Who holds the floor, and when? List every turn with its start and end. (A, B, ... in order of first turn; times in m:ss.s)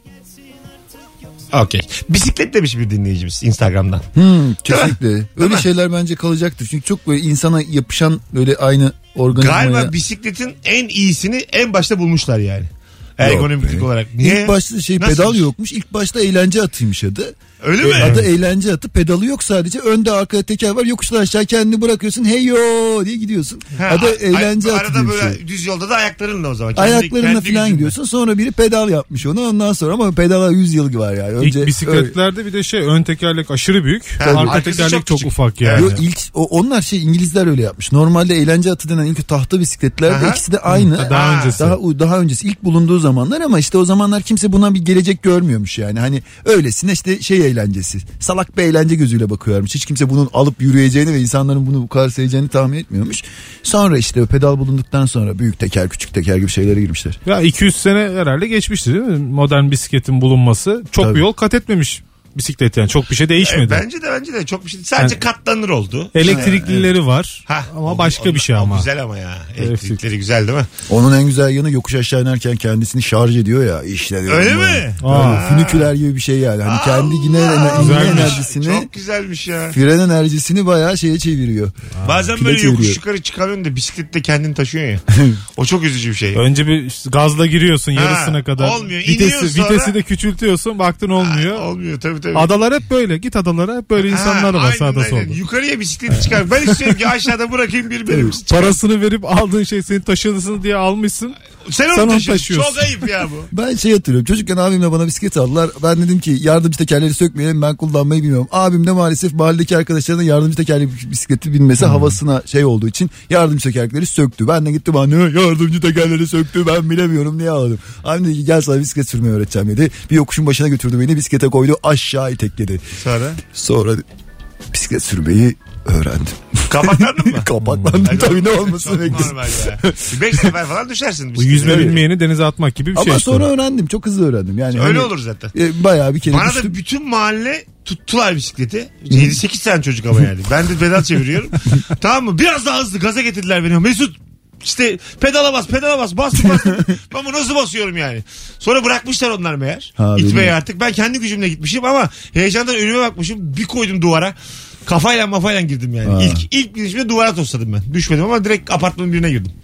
0:01.5-0:04.1 A
0:04.1-0:09.9 B
0:04.7-0:05.6 A
0:09.3-0:15.4 A
0:13.2-0:25.4 B
0:17.6-0:18.2 A
0:17.8-0:18.3 C
0:23.8-0:27.9 A
0:26.8-0:32.1 B
0:31.4-0:36.0 C
0:34.2-0:35.9 A
0:34.2-0:34.6 B
0:35.8-0:57.2 B
0:40.1-0:40.4 A
0:40.7-0:41.8 C
0:41.1-0:41.6 A
0:57.3-1:03.8 C
1:03.4-1:06.9 A
1:06.1-1:08.9 C
1:06.2-1:06.7 B
1:07.4-1:10.7 A
1:09.6-1:10.0 C
1:10.9-1:18.9 B
1:14.3-1:15.9 A
1:15.0-1:15.4 C
1:16.6-1:19.8 A
1:17.8-1:18.4 C
1:19.7-1:21.7 B
1:22.0-1:25.0 A
1:22.3-1:23.0 B
1:25.1-1:25.4 B
1:25.6-1:26.4 A
1:26.4-1:31.6 C
1:27.9-1:30.0 A
1:31.2-1:32.5 A
1:32.4-1:35.4 C
1:34.1-1:38.8 A
1:38.1-1:38.4 B
1:38.5-1:41.4 C
1:41.6-1:43.5 A
1:41.9-1:42.9 C
1:43.5-2:02.8 B
1:51.8-1:52.1 C
2:03.0-2:03.4 A
2:03.4-2:04.0 B
2:04.7-2:10.5 B
2:06.7-2:07.5 A
2:07.6-2:08.1 C
2:08.0-2:12.0 A
2:11.4-2:13.5 C
2:11.6-2:12.0 B
2:12.9-2:16.8 B
2:14.7-2:15.5 A
2:16.3-2:39.5 A
2:26.4-2:26.8 B
2:30.0-2:30.6 B
2:36.0-2:36.4 B